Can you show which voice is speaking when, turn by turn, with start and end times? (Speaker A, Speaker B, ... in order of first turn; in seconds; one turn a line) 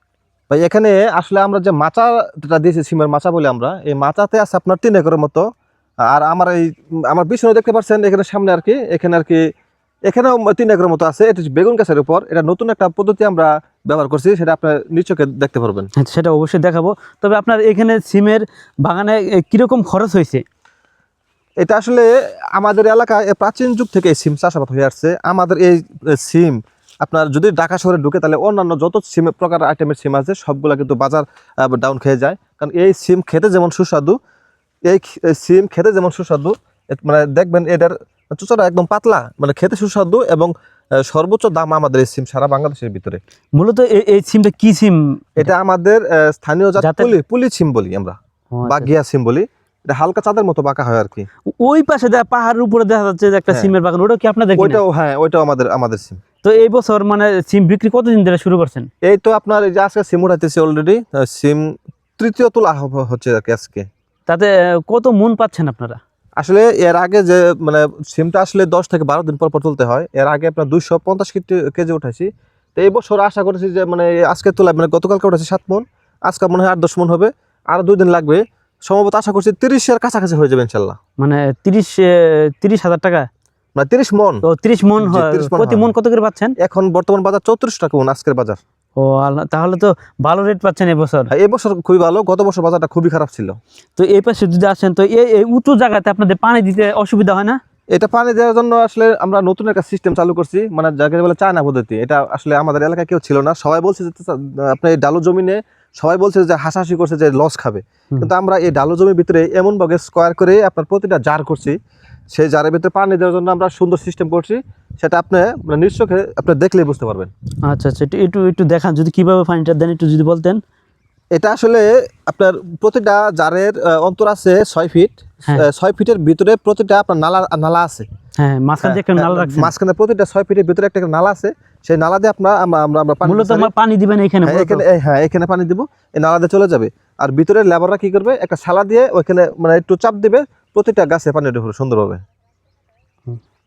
Speaker A: 0.5-5.5
Speaker A: 6.1-9.4
Speaker A: 10.1-15.9
Speaker B: 16.0-20.4
Speaker A: 21.6-34.1
Speaker A: 34.9-40.5
Speaker A: 41.1-43.2
Speaker B: 43.6-45.5
Speaker A: 45.4-51.3
Speaker B: 46.8-47.1
Speaker B: 48.5-48.9
Speaker B: 51.6-54.8
Speaker A: 54.5-56.2
Speaker B: 56.4-58.9
Speaker A: 59.0-61.6
Speaker A: 62.2-63.8
Speaker B: 64.3-66.0
Speaker A: 66.4-81.0
Speaker B: 81.2-83.3
Speaker A: 83.8-84.4
Speaker B: 84.5-86.5
Speaker A: 85.0-85.9
Speaker A: 86.6-88.6
Speaker B: 89.0-91.3
Speaker A: 91.3-93.6
Speaker B: 94.0-97.6
Speaker A: 97.9-111.8
Speaker A: 112.3-117.3
Speaker B: 117.7-120.6
Speaker A: 121.3-128.1
Speaker B: 128.4-129.7
Speaker A: 128.8-133.7
Speaker B: 133.2-134.8
Speaker A: 134.4-142.2